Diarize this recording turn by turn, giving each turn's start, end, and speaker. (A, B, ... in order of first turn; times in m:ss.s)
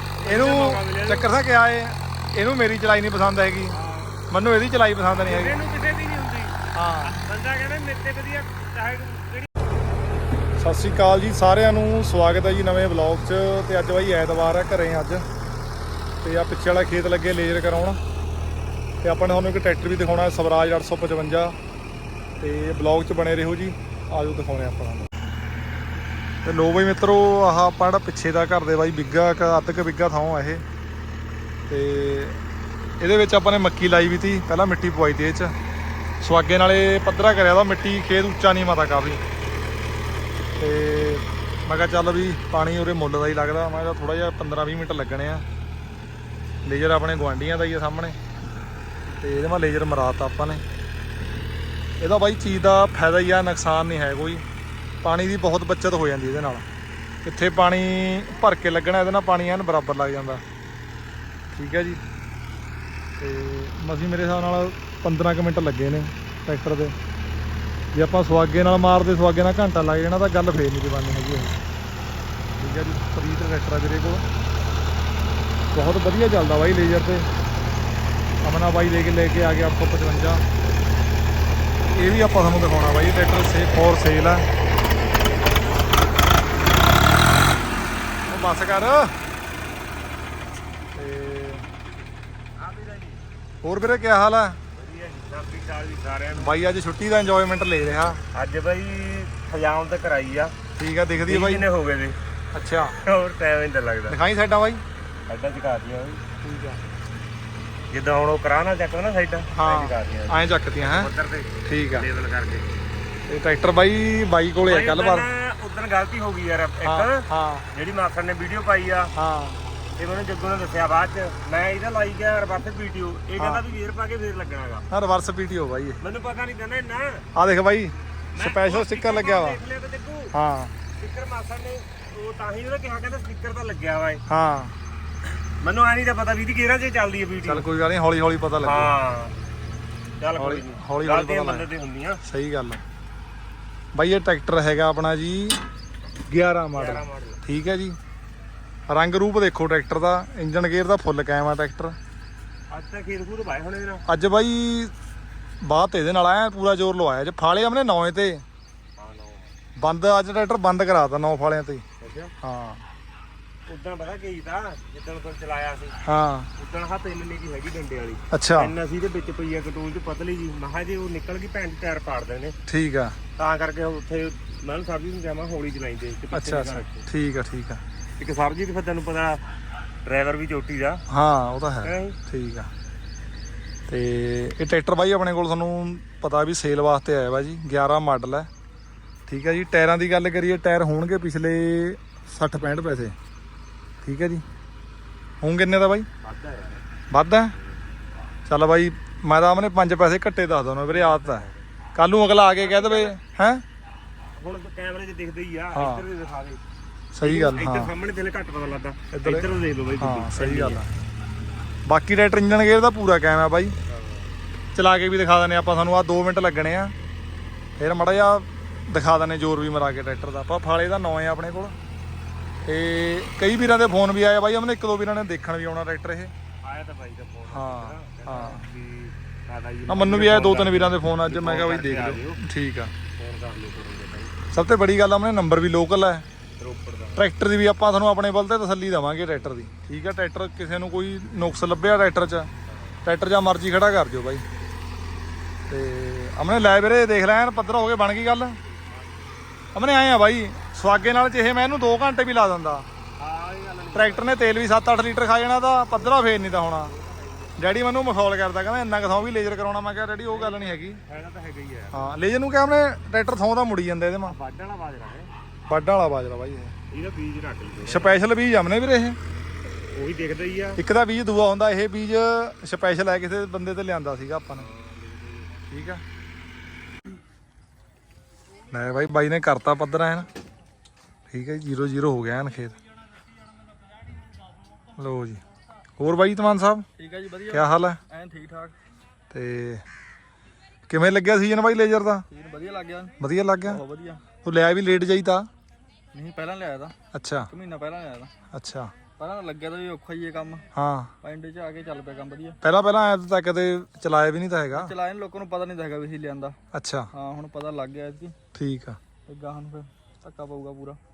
0:00.2-0:01.3 A
0:00.2-0:03.8 B
0:03.7-0:04.2 A
0:04.3-0:05.5 B
0:05.2-0:09.5 A
0:06.7-0:07.2 B
0:10.6-0:15.2 B
0:16.2-0:18.0 B
0:19.0-0:21.5 B
0:22.4-0:25.1 B
0:26.4-0:30.6 B
0:31.7-0:32.4 B
0:33.0-0:35.5 B
0:36.2-0:39.2 B
0:40.6-0:45.4 B
0:46.6-0:48.2 B
0:49.2-0:50.6 B
0:52.0-0:54.4 B
0:55.0-0:56.6 B
0:57.2-1:00.4 B
1:01.5-1:02.0 B
1:03.2-1:06.9 B
1:07.9-1:11.6 B
1:12.6-1:14.2 B
1:15.7-1:17.3 B
1:18.4-1:20.4 B
1:21.9-1:24.4 B
1:28.3-1:29.1 B
1:30.9-1:31.6 B
1:32.6-1:33.2 A
1:33.6-1:34.6 B
1:34.7-1:36.6 A
1:36.3-1:38.2 B
1:38.3-1:40.5 A
1:40.8-1:41.7 B
1:41.2-1:42.2 A
1:42.5-1:43.0 B
1:43.0-1:44.2 A
1:44.1-1:44.8 B
1:45.3-1:46.2 A
1:46.4-1:46.8 B
1:47.9-1:52.7 A
1:49.5-1:51.1 B
1:51.6-1:52.0 B
1:53.3-1:55.3 B
1:54.6-1:59.1 A
1:56.8-1:57.6 B
1:59.2-1:59.6 B
2:00.0-2:04.8 A
2:03.4-2:03.6 B
2:04.9-2:06.0 B
2:06.0-2:07.2 A
2:07.3-2:09.6 B
2:08.3-2:10.3 A
2:10.3-2:10.7 B
2:10.9-2:14.2 A
2:14.3-2:14.7 B
2:15.6-2:17.6 A
2:17.4-2:18.9 B
2:18.6-2:19.3 A
2:20.2-2:22.2 A
2:20.4-2:21.7 B
2:22.2-2:22.8 B
2:23.9-2:25.6 B
2:26.3-2:28.0 B
2:26.7-2:27.4 A
2:28.9-2:32.0 B
2:32.7-2:34.0 A
2:34.1-2:34.9 B
2:35.6-2:38.4 B
2:39.0-2:39.5 A
2:39.8-2:41.8 B
2:42.0-2:42.3 A
2:42.4-2:42.8 B
2:43.7-2:46.0 A
2:46.0-2:46.5 B
2:46.6-2:52.6 A
2:48.3-2:48.7 B
2:52.7-2:53.2 B
2:53.4-2:57.1 A
2:56.3-2:57.8 B
2:58.2-2:59.4 A
3:00.0-3:01.0 A
3:01.1-3:02.7 B
3:01.8-3:02.2 A
3:03.9-3:08.5 B
3:09.3-3:13.1 B
3:14.0-3:14.4 B
3:15.4-3:16.1 B
3:16.2-3:16.8 A
3:17.1-3:17.5 B
3:18.5-3:23.6 B
3:20.9-3:21.6 A
3:22.5-3:23.2 A
3:24.4-3:26.6 A
3:25.7-3:26.0 B
3:27.1-3:27.9 B
3:27.2-3:30.8 A
3:29.1-3:30.9 B
3:31.9-3:33.7 B
3:33.9-3:34.3 A
3:34.7-3:36.9 B
3:37.8-3:41.7 B
3:42.6-3:46.3 B
3:46.6-3:52.4 A
3:47.5-3:48.7 B
3:49.9-3:52.9 B
3:53.2-3:54.3 A
3:54.5-3:56.2 B
3:56.6-3:57.2 A
3:57.2-4:02.5 B
4:02.7-4:03.0 A
4:03.0-4:04.4 B
4:05.7-4:08.6 B
4:08.7-4:09.1 A
4:09.7-4:12.8 B
4:13.2-4:14.4 A
4:13.9-4:16.9 B
4:15.9-4:17.6 A
4:17.6-4:21.0 B
4:20.3-4:22.2 A
4:21.9-4:24.4 B
4:24.2-4:25.3 A
4:25.7-4:26.7 B
4:26.9-4:28.2 A
4:27.8-4:29.2 B
4:29.9-4:30.8 A
4:30.8-4:34.7 B
4:34.6-4:35.5 A
4:35.7-4:36.0 B
4:38.7-4:40.3 B
4:41.3-4:42.8 B
4:45.0-4:45.4 B
4:46.0-4:46.8 B
4:47.0-4:48.7 C
4:47.5-4:48.0 B
4:49.3-4:49.8 B
4:50.9-4:52.2 B
4:52.3-4:54.2 C
4:53.2-4:53.8 B
4:54.4-4:55.5 B
4:56.1-4:56.9 C
4:57.1-4:57.5 B
4:57.5-4:58.3 C
4:58.5-4:58.9 B
4:59.2-5:00.6 C
5:00.7-5:01.1 B
5:01.2-5:02.6 C
5:02.6-5:04.9 B
5:04.7-5:06.6 C
5:06.7-5:07.1 B
5:07.1-5:08.4 C
5:08.5-5:09.0 B
5:09.3-5:11.0 C